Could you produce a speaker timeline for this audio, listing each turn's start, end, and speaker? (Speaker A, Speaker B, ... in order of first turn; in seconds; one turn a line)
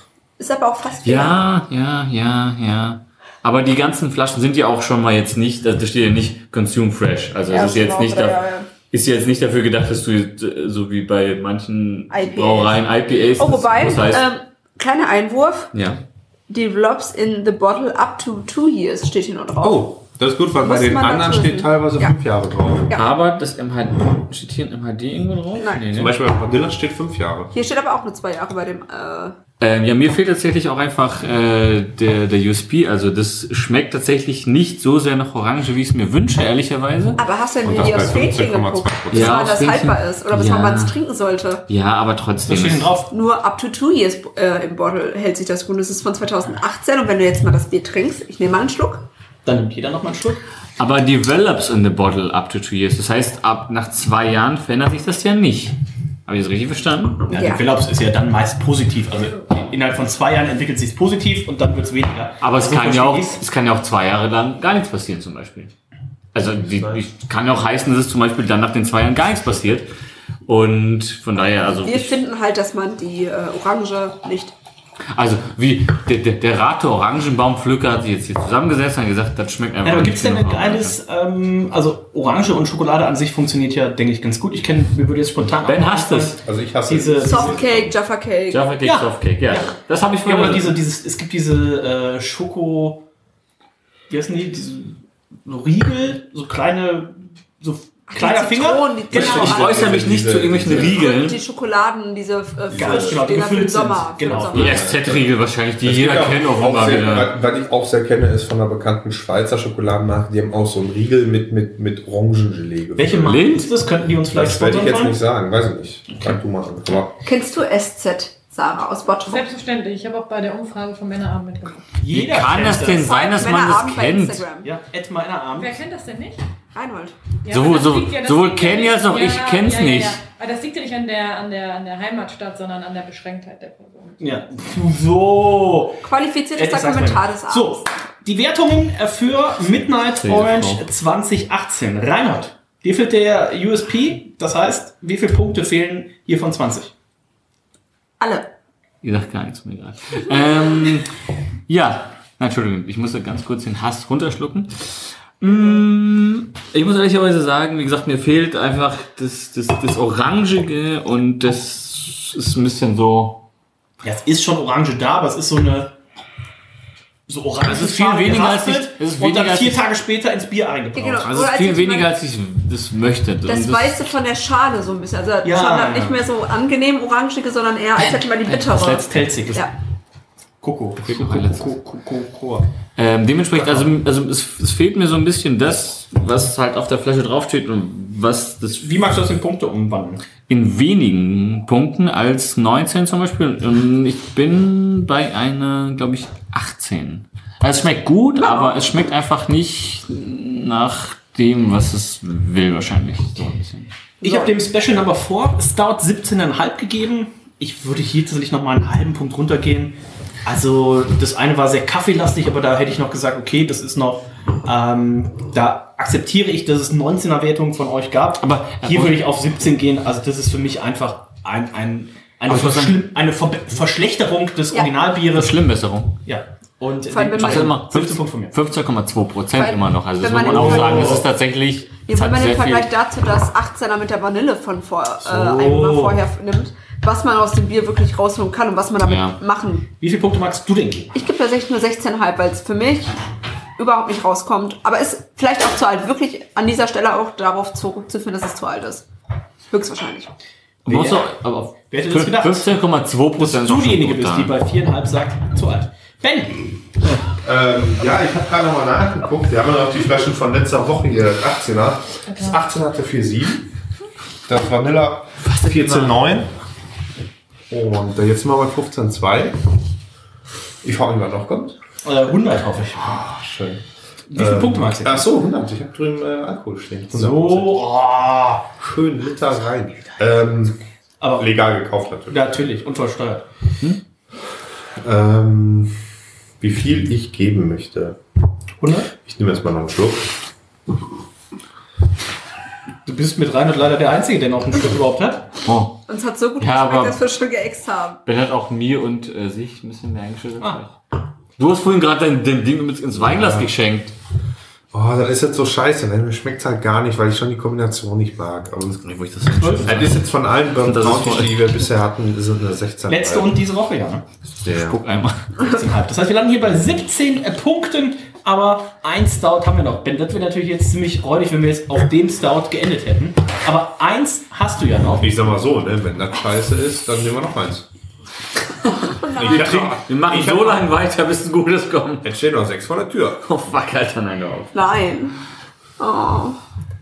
Speaker A: 0.4-1.4
Speaker B: 1.0-14.2
Speaker A: 7.5-8.7
Speaker A: 12.1-12.8
Speaker A: 13.4-15.7
Speaker B: 15.7-16.0
Speaker A: 16.5-19.9
Speaker C: 19.6-22.9
Speaker A: 20.6-22.1
Speaker B: 22.9-26.1
Speaker A: 25.6-25.8
Speaker C: 25.9-27.5
Speaker A: 27.5-29.4
Speaker B: 29.6-37.2
Speaker A: 37.2-41.6
Speaker C: 37.6-39.5
Speaker B: 39.1-41.0
Speaker B: 41.7-42.9
Speaker D: 42.5-43.1
Speaker A: 43.1-49.0
Speaker D: 49.5-50.4
Speaker B: 50.8-55.8
Speaker B: 56.3-57.2
Speaker D: 57.3-63.4
Speaker A: 57.3-57.6
Speaker B: 62.4-65.7
Speaker B: 66.3-69.9
Speaker C: 66.4-67.1
Speaker B: 70.5-72.2
Speaker A: 71.8-74.5
Speaker B: 75.1-81.0
Speaker D: 79.8-87.6
Speaker B: 85.6-86.4
Speaker C: 86.4-88.0
Speaker A: 87.3-88.7
Speaker B: 88.5-90.8
Speaker D: 88.8-93.0
Speaker D: 94.1-99.6
Speaker A: 98.1-100.0
Speaker C: 99.1-101.1
Speaker B: 99.1-101.4
Speaker A: 100.7-104.9
Speaker C: 102.7-103.3
Speaker D: 102.8-104.9
Speaker C: 104.5-105.3
Speaker B: 104.5-107.3
Speaker C: 105.8-113.4
Speaker D: 113.0-115.2
Speaker B: 113.3-113.7
Speaker C: 114.3-117.2
Speaker A: 117.2-119.5
Speaker E: 119.3-121.9
Speaker D: 122.0-123.1
Speaker B: 122.1-124.4
Speaker A: 123.0-124.7
Speaker D: 124.6-125.8
Speaker E: 125.6-126.4
Speaker A: 126.7-127.2
Speaker E: 127.5-134.2
Speaker B: 127.5-130.2
Speaker D: 134.2-136.0
Speaker A: 136.0-137.8
Speaker D: 136.6-146.9
Speaker B: 140.1-140.8
Speaker A: 148.2-148.5
Speaker B: 149.0-151.1
Speaker B: 151.7-163.4
Speaker D: 164.0-166.0
Speaker D: 167.3-171.5
Speaker B: 167.6-169.8
Speaker A: 170.9-172.1
Speaker B: 171.3-174.0
Speaker A: 173.5-179.7
Speaker D: 175.4-176.2
Speaker B: 178.5-179.2
Speaker D: 179.1-179.7
Speaker D: 180.6-182.7
Speaker B: 181.0-181.7
Speaker B: 183.0-188.9
Speaker D: 188.8-190.2
Speaker B: 190.5-203.9
Speaker A: 198.4-198.8
Speaker A: 204.2-204.6
Speaker D: 204.2-225.6
Speaker B: 218.5-219.2
Speaker B: 222.5-223.1
Speaker B: 225.3-226.2
Speaker D: 226.2-228.6
Speaker A: 227.1-227.8
Speaker B: 227.4-232.9
Speaker A: 229.6-231.2
Speaker D: 230.4-231.2
Speaker A: 232.1-239.9
Speaker D: 235.2-236.2
Speaker B: 239.0-239.4
Speaker D: 240.0-241.1
Speaker A: 241.1-243.2
Speaker A: 243.8-249.1
Speaker A: 249.7-250.3
Speaker B: 250.9-254.6
Speaker D: 250.9-251.3
Speaker D: 251.9-252.8
Speaker D: 253.4-256.7
Speaker C: 257.4-263.7
Speaker E: 262.3-262.6
Speaker C: 264.5-266.5
Speaker D: 265.6-266.1
Speaker C: 267.7-269.6
Speaker C: 270.8-271.8
Speaker D: 272.0-273.2
Speaker C: 273.0-273.8
Speaker D: 274.3-275.3
Speaker C: 274.3-277.9
Speaker D: 277.1-278.7
Speaker C: 278.8-280.8
Speaker D: 281.2-281.5
Speaker C: 281.4-282.6
Speaker D: 282.3-283.5
Speaker C: 285.0-286.0
Speaker C: 286.6-288.2
Speaker D: 288.8-289.1
Speaker C: 289.2-290.3
Speaker D: 293.1-295.5
Speaker B: 295.7-296.0
Speaker A: 296.1-298.2
Speaker B: 296.6-297.2
Speaker B: 298.3-300.9
Speaker B: 301.6-304.1
Speaker C: 303.2-303.7
Speaker C: 304.9-309.1
Speaker B: 309.0-310.3
Speaker D: 309.6-310.1
Speaker C: 309.8-313.6
Speaker B: 310.8-311.8
Speaker D: 313.1-314.2
Speaker C: 314.6-315.0
Speaker B: 314.7-315.5
Speaker D: 315.6-325.3
Speaker C: 325.2-327.9
Speaker A: 329.2-329.8
Speaker C: 329.3-330.9
Speaker B: 329.5-332.3
Speaker C: 332.2-333.4
Speaker B: 333.4-334.7
Speaker A: 334.7-335.4
Speaker A: 336.0-336.6